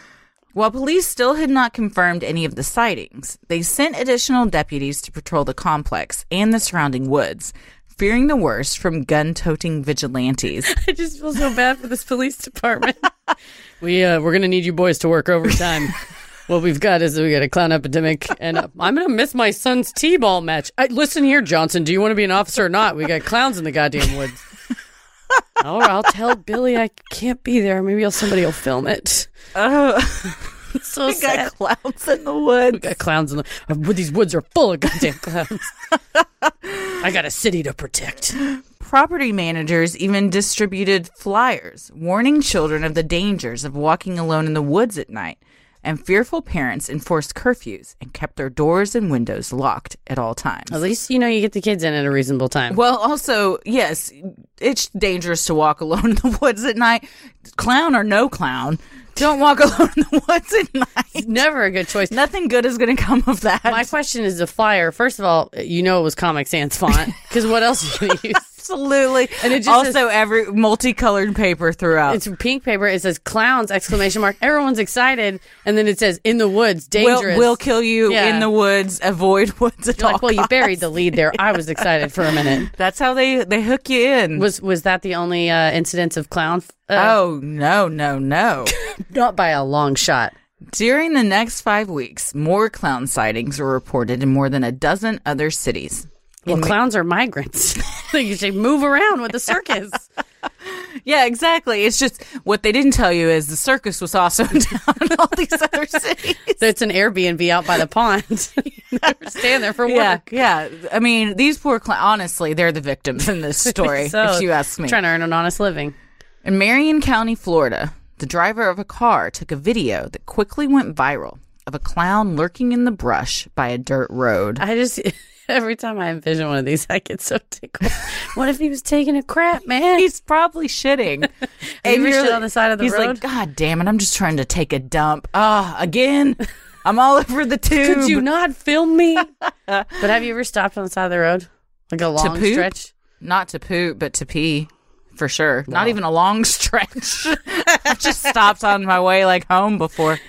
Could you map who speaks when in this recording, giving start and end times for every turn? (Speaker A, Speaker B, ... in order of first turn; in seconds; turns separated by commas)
Speaker A: 0.5-10.7, Speaker B: 10.7-13.1, Speaker B: 13.8-24.4, Speaker B: 25.6-29.3, Speaker A: 29.5-30.5, Speaker B: 30.7-31.5, Speaker A: 31.1-32.8, Speaker B: 32.7-35.7, Speaker A: 36.5-36.9, Speaker B: 37.0-38.4, Speaker A: 38.4-50.7, Speaker B: 50.7-52.8, Speaker A: 52.7-61.4, Speaker B: 61.1-62.1, Speaker A: 62.1-63.9, Speaker B: 63.7-68.5, Speaker A: 68.5-72.2, Speaker B: 69.4-70.0, Speaker B: 72.1-78.5, Speaker A: 77.0-81.8, Speaker B: 80.0-82.7, Speaker A: 82.3-84.5, Speaker B: 84.3-87.2, Speaker A: 87.0-88.7, Speaker B: 88.7-90.3, Speaker A: 90.7-96.7, Speaker B: 96.5-100.1, Speaker A: 100.6-106.6, Speaker B: 106.6-110.2, Speaker A: 109.0-115.0, Speaker B: 113.6-115.9, Speaker A: 116.4-124.6, Speaker B: 124.6-130.1, Speaker A: 130.0-131.3, Speaker B: 131.8-133.2, Speaker A: 131.8-138.2, Speaker B: 137.8-139.3, Speaker A: 139.7-139.9, Speaker B: 140.0-142.9, Speaker A: 142.2-150.2, Speaker B: 145.7-145.9